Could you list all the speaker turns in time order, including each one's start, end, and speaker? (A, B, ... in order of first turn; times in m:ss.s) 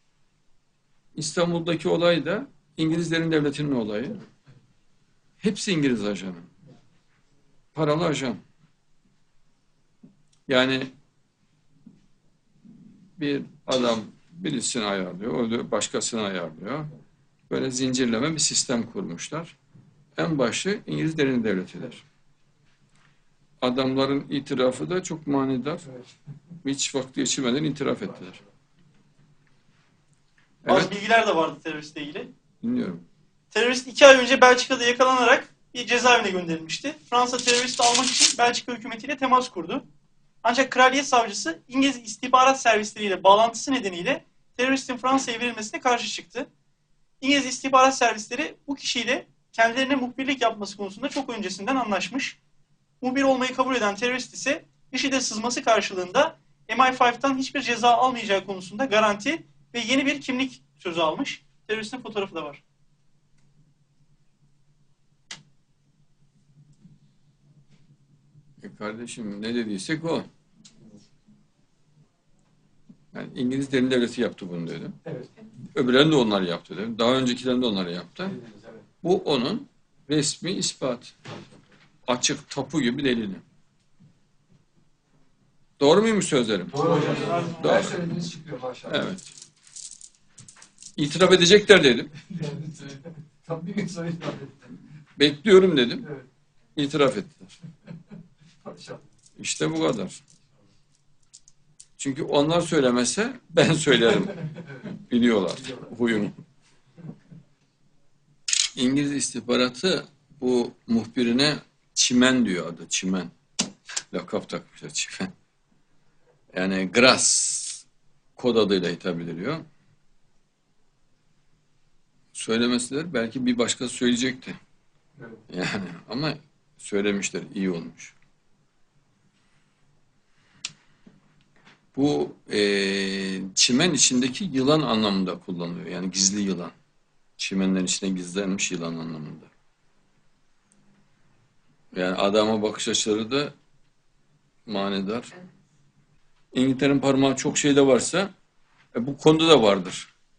0:01.2-0:04.2 A
0:05.4-0:06.5 A
0:07.8-0:08.4 A
0:10.5-0:10.9 A
0:13.2-0:16.9 A
0:17.5-0:19.6 A
0:20.2-0:22.0 A
0:23.6-0:25.9 A
0:26.6-0:28.4 A
0:30.6-0:30.9 A
0:30.7-0:32.3 B
0:32.6-0:33.0 A
0:33.5-0:39.8 B
0:40.4-0:46.5 B
0:47.2-0:52.4 B
0:53.0-1:02.6 B
1:08.6-1:10.3 A
1:13.1-1:15.0 A
1:15.7-1:18.4 A
1:18.3-1:18.8 C
1:19.0-1:21.1 A
1:22.1-1:23.4 A
1:25.8-1:28.0 A
1:26.7-1:29.0 C
1:26.9-1:27.9 B
1:28.9-1:29.3 A
1:31.0-1:32.1 A
1:32.3-1:34.6 C
1:35.2-1:36.1 A
1:36.8-1:37.5 A
1:38.6-1:39.0 C
1:39.4-1:40.2 A
1:42.0-1:46.4 A
1:48.8-1:53.3 A
1:54.1-1:55.3 A
1:56.5-1:57.8 A
1:58.4-1:59.6 A
2:02.3-2:04.6 A
2:05.5-2:08.2 A
2:12.0-2:16.7 A
2:17.4-2:19.5 A
2:21.9-2:23.5 A
2:24.7-2:25.4 A
2:26.5-2:28.3 A
2:28.9-2:30.1 A